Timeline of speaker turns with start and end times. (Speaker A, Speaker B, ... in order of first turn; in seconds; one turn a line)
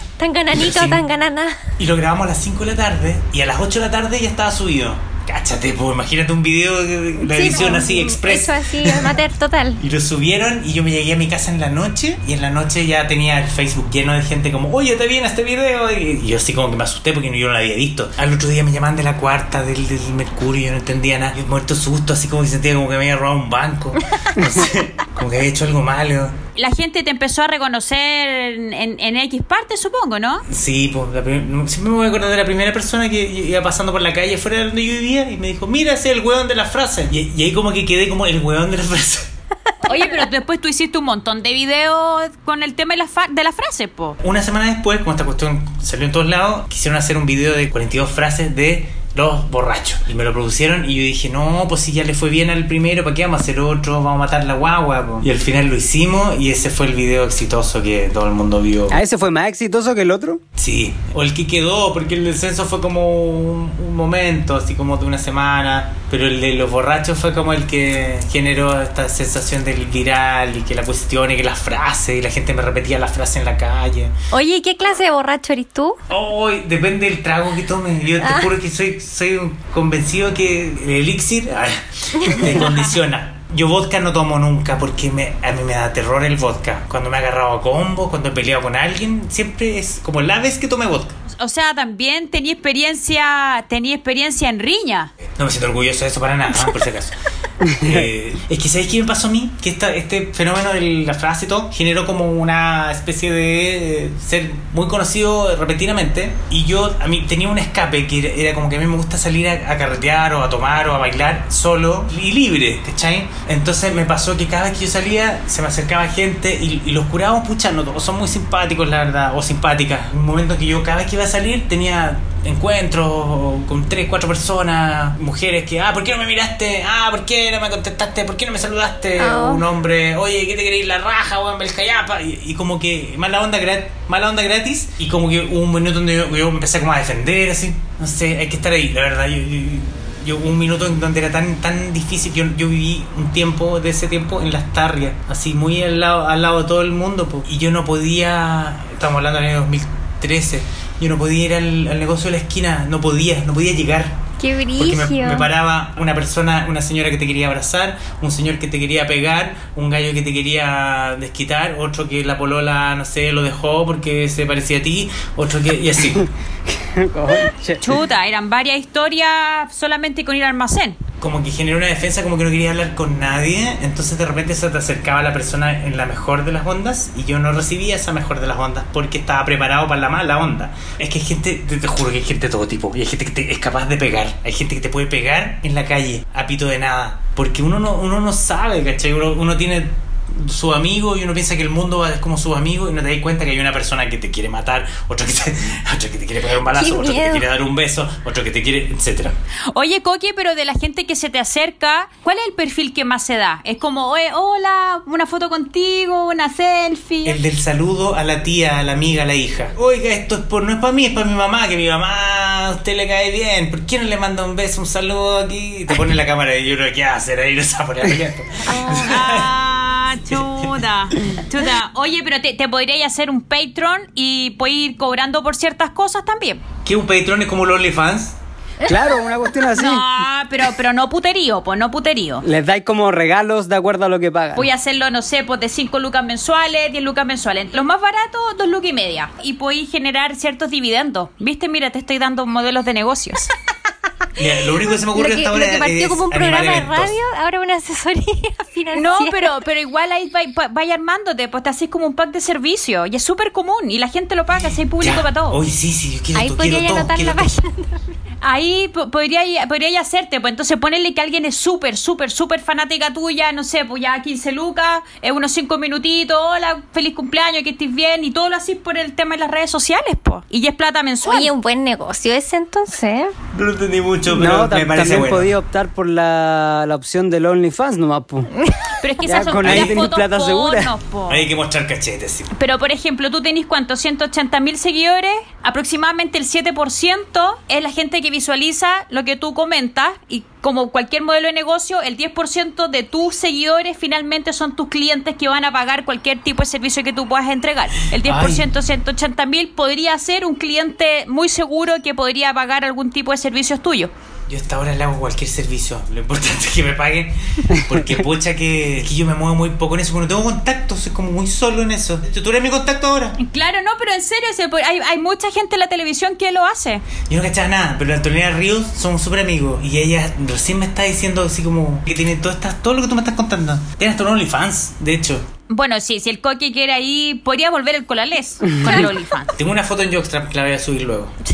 Speaker A: 0.2-1.6
Speaker B: 0.5-1.0
Speaker B: 1.8-9.2
Speaker A: 7.2-9.8
Speaker B: 9.8-26.4
Speaker C: 26.6-30.4
Speaker B: 30.5-39.3
Speaker C: 39.9-44.2
Speaker B: 44.2-59.0
Speaker D: 58.9-60.4
Speaker B: 60.5-74.1
Speaker A: 74.3-76.0
Speaker B: 76.1-91.2
Speaker A: 78.2-78.5
Speaker A: 82.2-82.6
Speaker C: 91.3-95.1
Speaker B: 95.3-97.2
Speaker D: 97.6-98.0
Speaker B: 97.7-154.2
Speaker A: 129.2-129.7
Speaker A: 154.4-155.5
Speaker B: 154.8-166.3
Speaker D: 166.2-168.0
Speaker C: 167.8-171.0
Speaker B: 171.2-199.3
Speaker A: 196.6-197.5
Speaker C: 199.7-207.4
Speaker B: 207.2-219.5
Speaker C: 218.6-226.6
Speaker B: 220.3-220.8
Speaker B: 226.8-228.4
Speaker D: 228.8-230.1
Speaker C: 229.7-232.4
Speaker D: 232.4-234.7
Speaker C: 234.6-243.5
Speaker B: 244.3-247.2
Speaker A: 244.8-249.5
Speaker C: 248.9-255.6
Speaker B: 254.5-257.5
Speaker A: 256.3-258.1
Speaker C: 258.4-271.5
Speaker A: 271.2-273.3
Speaker B: 273.5-275.5
Speaker D: 274.3-278.5
Speaker C: 279.0-281.4
Speaker D: 279.2-280.9
Speaker B: 279.6-280.0
Speaker B: 281.3-282.5
Speaker C: 282.5-304.1
Speaker B: 298.2-298.7
Speaker B: 304.5-313.4
Speaker C: 313.4-317.0
Speaker B: 317.3-325.5
Speaker C: 325.7-329.5
Speaker A: 328.8-329.1
Speaker B: 329.5-331.3